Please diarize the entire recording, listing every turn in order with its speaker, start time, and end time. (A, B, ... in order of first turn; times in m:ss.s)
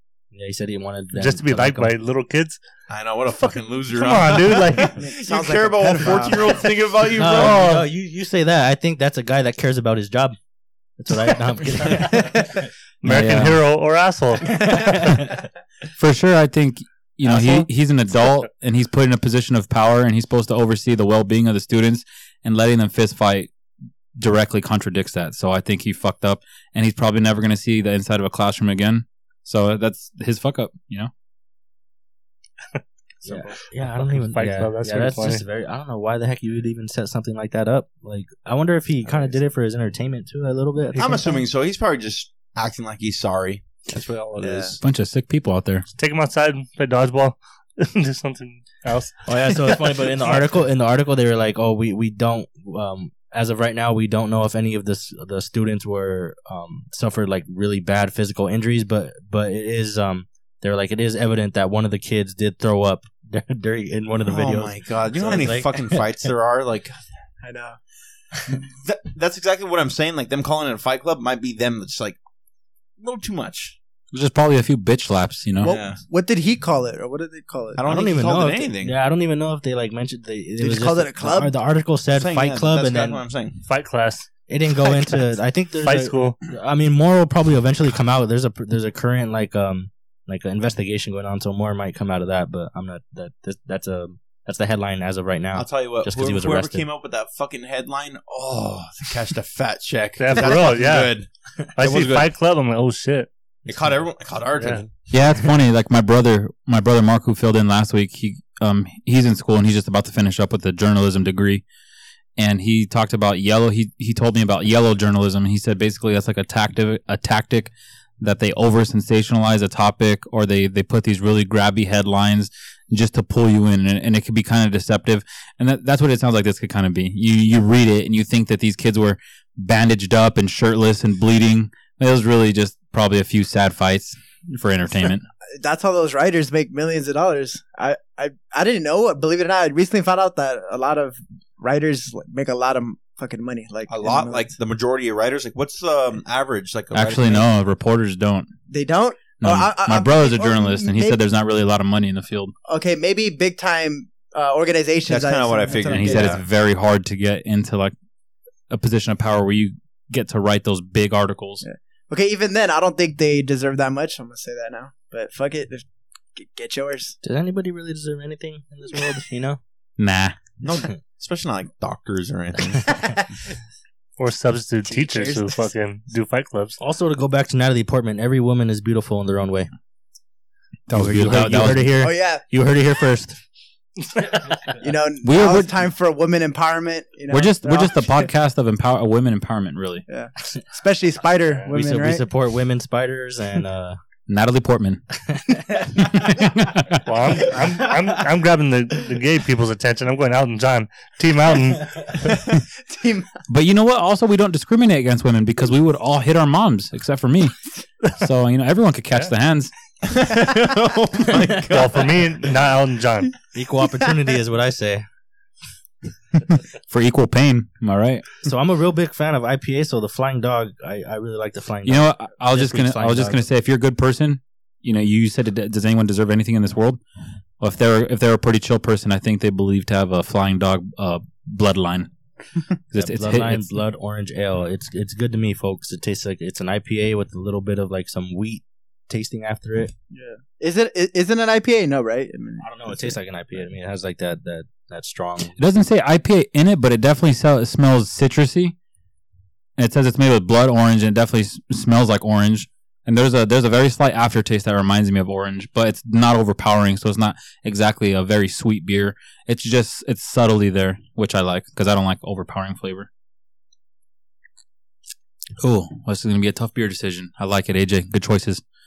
0:00.3-0:01.9 A
0:01.2-0:02.6 B
0:02.9-0:07.7 C
0:03.4-0:05.0 B
0:05.0-0:06.6 D
0:07.2-0:10.4 A
0:07.3-0:07.8 B
0:11.0-0:12.5 A
0:12.1-0:12.4 B
0:13.0-0:15.2 B
0:13.0-0:13.6 E
0:14.5-0:15.3 A
0:16.0-0:23.5 E
0:17.3-0:17.6 B
0:24.2-0:31.1 E
0:32.7-0:35.4 B
0:33.2-0:41.4 A
0:40.9-0:44.8 C
0:44.4-0:44.8 D
0:44.8-0:45.8 E
0:45.9-0:50.4 B
0:49.2-1:06.2 A
1:04.2-1:07.0 C
1:07.4-1:07.8 D
1:08.5-1:12.2 C
1:13.0-1:13.8 C
1:14.1-1:15.7 E
1:15.6-1:17.9 D
1:15.6-1:16.0 C
1:17.8-1:19.0 C
1:17.8-1:23.2 A
1:20.6-1:21.5 D
1:22.1-1:23.6 C
1:23.6-1:24.3 B
1:24.5-1:36.9 A
1:25.8-1:26.4 B
1:35.5-1:42.3 C
1:40.2-1:41.1 B
1:41.8-1:43.3 B
1:43.6-1:44.9 C
1:44.6-1:44.8 B
1:45.1-1:51.6 E
1:52.4-2:15.2 E
2:15.6-2:24.5 D
2:23.9-2:27.5 C
2:26.9-2:28.5 E
2:28.7-2:31.2 D
2:29.4-2:32.5 E
2:32.7-2:36.4 D
2:35.0-2:36.4 C
2:35.8-2:37.9 E
2:38.7-2:41.6 E
2:41.6-2:45.8 D
2:46.4-2:47.2 D
2:47.2-2:49.6 A
2:50.0-2:50.4 E
2:50.6-2:53.1 C
2:54.2-2:56.8 B
2:54.8-2:55.7 D
2:56.8-2:59.7 A
3:00.9-3:01.9 E
3:00.9-3:03.4 A
3:02.0-3:02.4 D
3:04.8-3:08.3 D
3:05.2-3:05.8 E
3:07.3-3:10.0 E
3:10.1-3:12.2 D
3:11.7-3:14.0 A
3:14.3-3:15.0 E
3:15.3-3:15.8 A
3:15.8-3:17.0 E
3:17.0-3:22.2 B
3:22.2-3:23.3 D
3:23.5-3:27.5 E
3:28.2-3:29.7 E
3:30.0-3:32.4 C
3:31.7-3:33.3 B
3:33.5-3:35.0 A
3:36.9-3:38.4 E
3:38.4-3:43.4 A
3:41.8-3:47.0 E
3:47.6-3:52.1 E
3:52.9-3:53.8 E
3:52.9-3:59.9 A
4:00.1-4:03.1 D
4:02.6-4:05.6 A
4:05.6-4:08.7 E
4:09.8-4:23.1 E
4:25.6-4:28.6 E